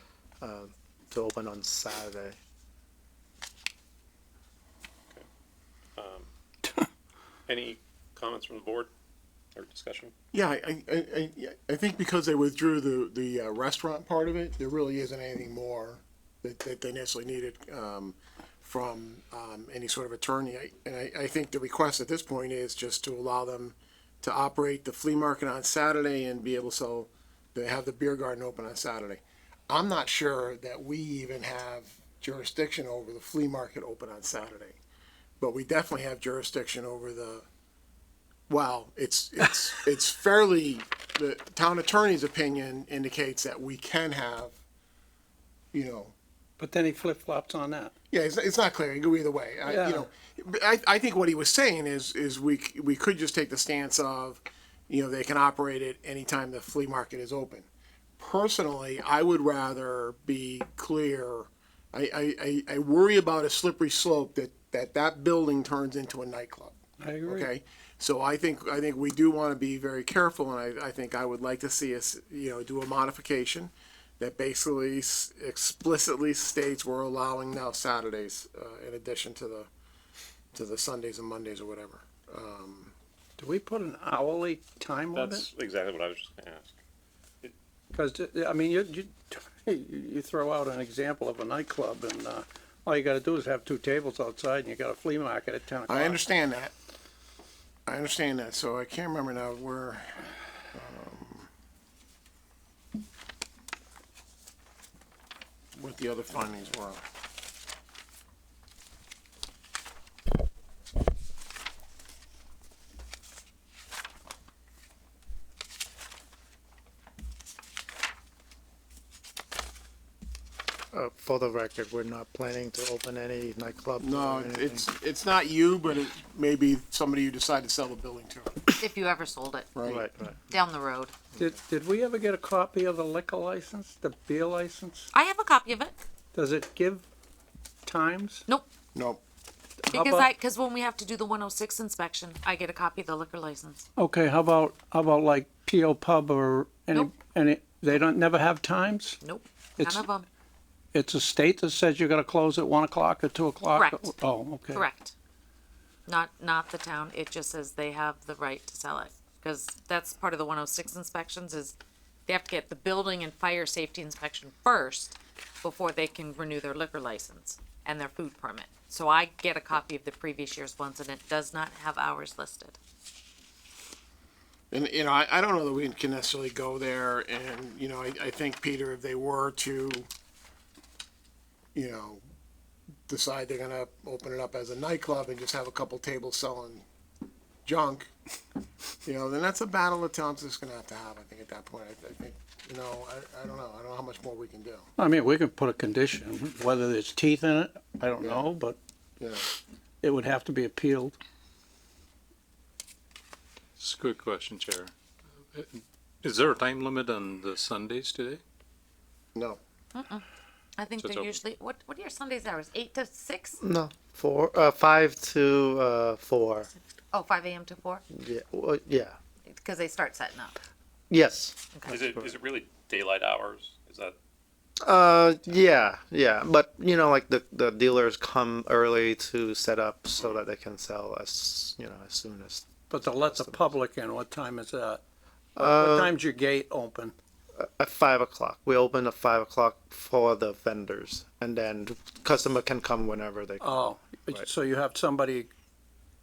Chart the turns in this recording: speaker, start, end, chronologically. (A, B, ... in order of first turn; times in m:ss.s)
0:00.4-0:02.4 A
0:06.0-0:06.2 B
0:07.5-0:08.9 B
0:09.6-0:10.1 B
0:10.3-0:34.8 C
0:35.4-0:37.4 C
0:38.5-0:44.6 C
0:45.7-0:46.1 C
0:46.6-0:47.9 D
0:48.1-0:57.7 C
0:49.7-0:50.1 D
0:58.2-1:19.7 C
1:07.0-1:07.5 D
1:20.5-1:22.9 C
1:23.4-1:25.5 D
1:25.1-1:26.7 B
1:27.9-1:36.2 D
1:35.9-1:36.7 C
1:37.9-1:41.5 C
1:45.8-1:47.0 C
2:00.9-2:04.8 A
2:04.0-2:08.8 C
2:08.8-2:09.7 E
2:09.7-2:10.1 C
2:09.8-2:10.5 A
2:10.5-2:11.1 E
2:11.3-2:15.1 D
2:15.1-2:15.9 E
2:16.3-2:17.0 D
2:17.8-2:18.4 D
2:18.9-2:19.2 C
2:19.8-2:20.3 D
2:19.9-2:23.8 E
2:24.0-2:29.2 D
2:29.2-2:30.2 E
2:29.8-2:30.1 D
2:30.9-2:34.8 D
2:33.7-2:34.1 E
2:34.7-2:35.1 E
2:36.0-2:41.7 E
2:42.3-2:52.8 E
2:54.7-3:00.1 C
3:01.7-3:02.2 C
3:03.1-3:06.8 C
3:07.6-3:08.1 C
3:09.0-3:14.9 C
3:15.0-3:18.8 D
3:18.2-3:18.5 C
3:19.2-3:19.5 C
3:20.0-3:21.2 D
3:23.8-3:24.9 F
3:25.5-3:28.4 F
3:29.3-3:29.6 C
3:29.9-3:30.2 E
3:30.8-3:33.6 E
3:31.0-3:31.4 F
3:33.6-3:36.7 A
3:37.1-3:38.0 E
3:38.1-3:39.2 A
3:39.4-3:40.6 E
3:41.1-3:42.3 A
3:41.9-3:44.2 B
3:44.8-3:53.7 A
3:52.9-3:55.0 D
3:55.6-3:56.1 A
3:55.6-3:57.1 D
3:57.6-4:04.5 A
4:03.6-4:05.5 D